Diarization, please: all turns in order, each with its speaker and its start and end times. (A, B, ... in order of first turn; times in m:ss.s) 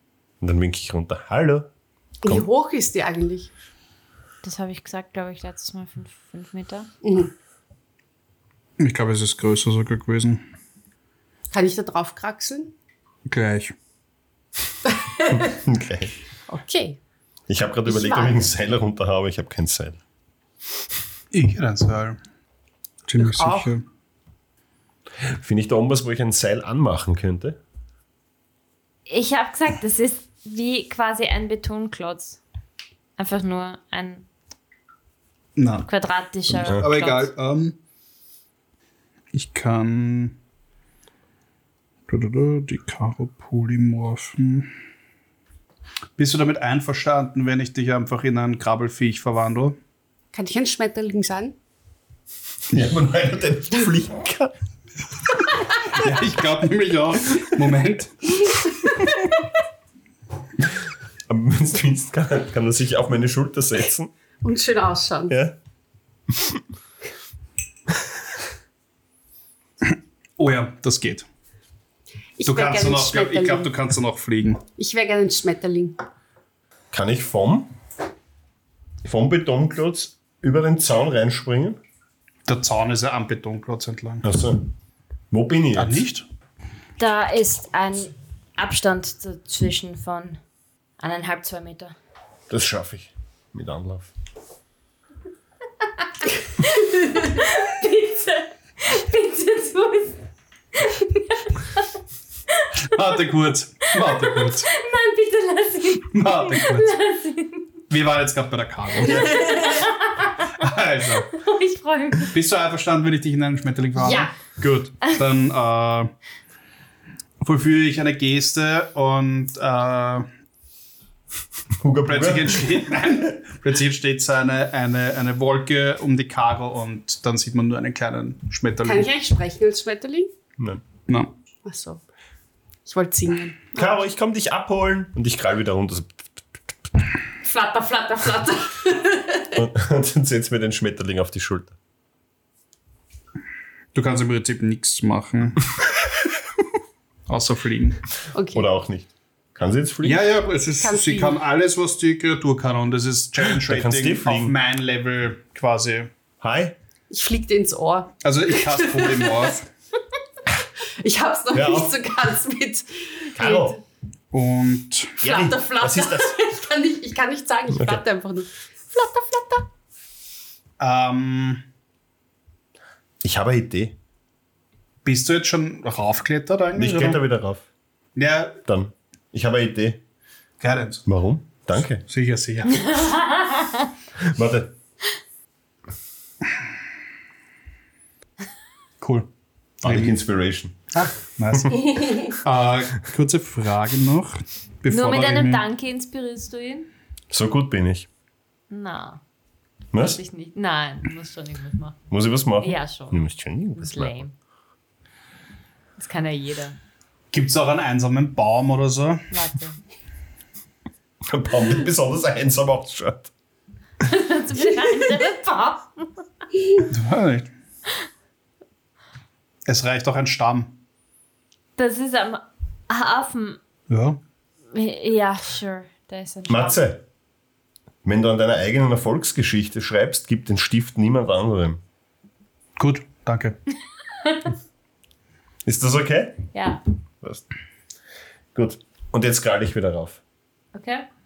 0:00.4-0:01.7 A
0:02.2-0:03.5 B
0:04.4-0:06.9 C
0:07.0-0:07.3 B
0:08.8-0:10.4 D
0:11.5-0:12.7 B
0:13.2-0:13.7 D
0:15.0-0:15.3 B
0:15.3-0:16.1 A
0:16.5-0:17.0 B
0:17.5-0:20.0 A
0:17.8-0:18.5 B
0:21.3-0:22.2 D
0:23.1-0:23.8 D
0:23.2-0:23.7 B
0:25.3-0:27.6 A
0:29.1-0:32.4 C
0:33.2-0:34.3 C
0:35.6-0:35.9 D
0:35.8-0:37.3 C
0:36.5-0:37.8 D
0:39.3-0:40.4 D
0:42.1-0:44.7 D
0:46.2-0:49.8 D
0:50.3-0:51.6 B
0:52.7-0:54.5 A
0:55.9-0:58.6 D
1:01.3-1:04.1 A
1:04.4-1:05.3 B
1:05.3-1:05.6 A
1:06.3-1:06.6 A
1:09.9-1:11.2 D
1:12.4-1:13.7 B
1:12.4-1:14.6 D
1:14.8-1:16.0 B
1:16.9-1:17.7 A
1:19.0-1:21.8 A
1:22.4-1:24.2 D
1:24.2-1:24.6 A
1:25.3-1:26.0 A
1:25.8-1:26.2 D
1:27.0-1:30.4 C
1:31.0-1:31.9 C
1:32.5-1:34.1 A
1:36.6-1:40.2 C
1:42.8-1:44.7 D
1:44.0-1:47.6 C
1:46.1-1:46.9 D
1:47.9-1:49.5 D
1:49.1-1:50.5 C
1:50.5-1:51.3 D
1:51.3-1:52.3 C
1:52.3-1:56.1 D
1:54.0-1:54.3 B
1:57.4-2:00.3 D
2:01.8-2:03.0 A
2:02.0-2:09.1 D
2:08.8-2:10.3 B
2:11.6-2:12.0 B
2:12.8-2:13.9 B
2:13.7-2:16.2 A
2:17.4-2:19.6 B
2:19.5-2:21.7 A
2:23.9-2:25.7 D
2:27.3-2:28.0 D
2:28.3-2:28.7 B
2:28.5-2:30.2 A
2:30.0-2:36.1 D
2:30.8-2:31.4 B
2:33.5-2:34.5 A
2:36.4-2:36.7 A
2:37.1-2:39.5 B
2:38.2-2:39.7 D
2:41.0-2:43.8 B
2:41.5-2:41.9 A
2:43.3-2:43.8 A
2:44.3-2:45.2 D
2:45.2-2:46.4 A
2:45.2-2:49.7 B
2:47.7-2:48.0 A
2:50.8-2:51.6 D
2:53.2-2:53.9 A
2:55.0-2:57.2 D
2:56.7-2:57.6 A
2:58.2-2:58.6 D
2:58.6-3:00.0 A
3:00.6-3:01.0 D
3:01.0-3:02.0 A
3:02.1-3:03.0 D
3:02.7-3:03.9 C
3:04.2-3:04.7 A
3:09.0-3:09.3 D
3:09.8-3:10.9 A
3:09.8-3:10.2 D
3:10.9-3:15.6 D
3:11.5-3:11.8 A
3:14.9-3:16.9 C
3:17.3-3:18.1 A
3:18.7-3:19.2 C
3:19.9-3:20.2 A
3:19.9-3:22.0 C
3:22.1-3:24.2 A
3:22.6-3:23.2 C
3:23.8-3:24.3 C
3:26.0-3:26.8 C
3:27.3-3:29.3 D
3:29.3-3:29.8 C
3:31.3-3:33.3 A
3:34.0-3:36.2 C
3:36.9-3:37.5 D
3:39.6-3:40.7 D
3:41.8-3:43.6 C
3:43.9-3:44.2 D
3:44.7-3:46.8 C
3:46.5-3:47.0 A
3:48.0-3:51.8 A
3:52.8-3:53.6 D
3:55.6-3:56.4 A
3:56.5-3:56.8 C
3:58.5-4:00.2 A
4:00.7-4:01.0 C